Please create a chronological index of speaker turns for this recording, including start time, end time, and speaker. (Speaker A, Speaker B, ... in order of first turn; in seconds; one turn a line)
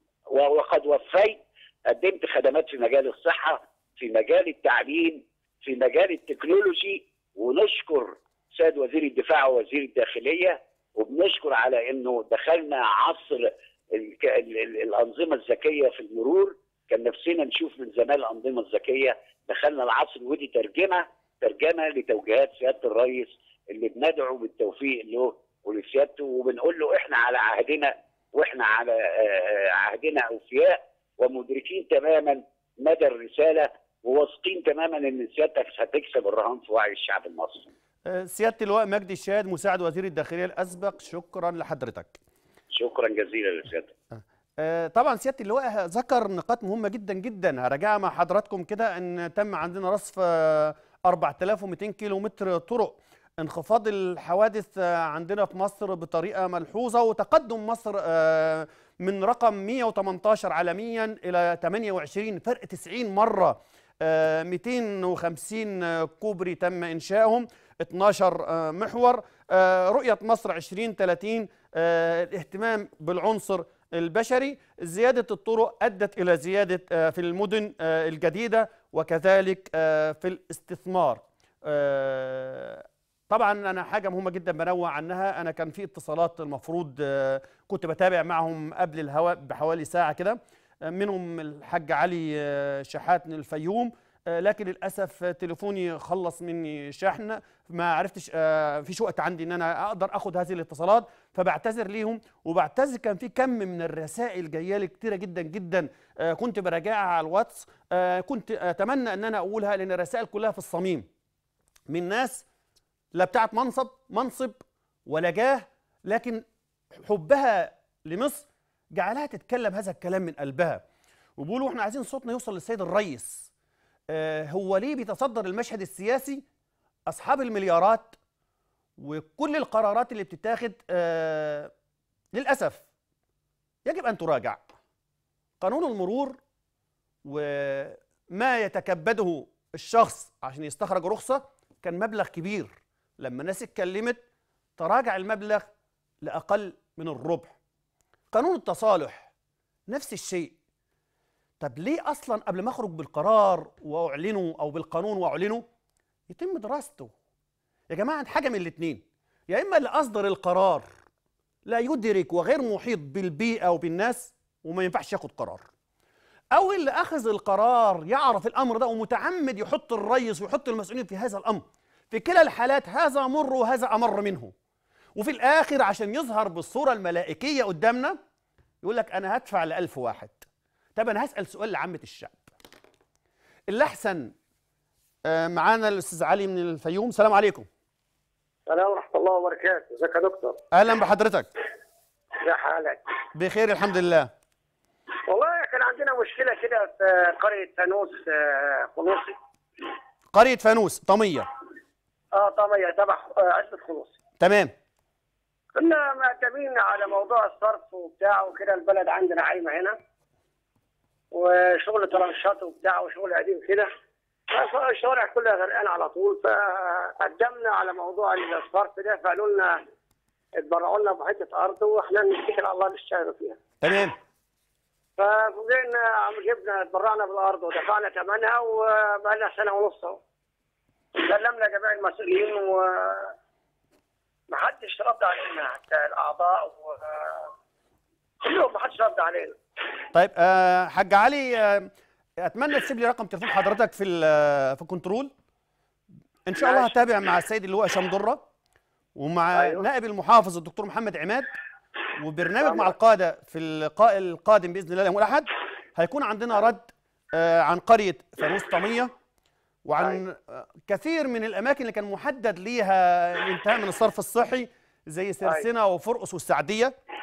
Speaker A: 0.3-37.7
Speaker B: 38.0-42.2
Speaker A: 42.7-43.9
Speaker B: 44.1-111.1
Speaker B: 111.9-112.4
Speaker B: 113.1-116.4
Speaker B: 117.0-120.8
Speaker B: 121.4-123.5
Speaker B: 124.1-126.4
Speaker B: 127.1-128.2
Speaker B: 129.0-131.7
Speaker B: 132.3-132.8
Speaker B: 133.8-134.7
Speaker B: 135.6-136.4
Speaker B: 137.2-144.2
Speaker B: 144.8-145.7
Speaker B: 146.2-147.5
Speaker B: 148.3-149.3
Speaker B: 149.9-150.6
Speaker B: 151.6-155.6
Speaker B: 156.3-157.1
Speaker B: 157.9-160.8
Speaker B: 161.7-165.6
Speaker B: 166.5-174.5
Speaker B: 175.2-178.2
Speaker B: 178.8-180.4
Speaker B: 180.9-182.4
Speaker B: 183.7-184.3
Speaker B: 185.2-187.7
Speaker C: 188.7-190.6
Speaker B: 190.7-191.5
Speaker C: 192.4-193.0
Speaker B: 193.3-194.3
Speaker C: 195.3-199.3
Speaker B: 200.3-201.5
Speaker C: 202.3-204.1
Speaker B: 204.4-204.7
Speaker C: 205.7-210.0
Speaker C: 211.3-213.9
Speaker C: 214.5-219.8
Speaker C: 220.6-223.6
Speaker B: 223.8-224.2
Speaker C: 225.2-230.2
Speaker C: 231.2-233.3
Speaker C: 234.5-237.5
Speaker C: 238.4-239.6
Speaker B: 240.1-245.3
Speaker B: 246.4-248.4
Speaker B: 249.2-251.5
Speaker B: 252.2-259.1
Speaker B: 259.9-266.9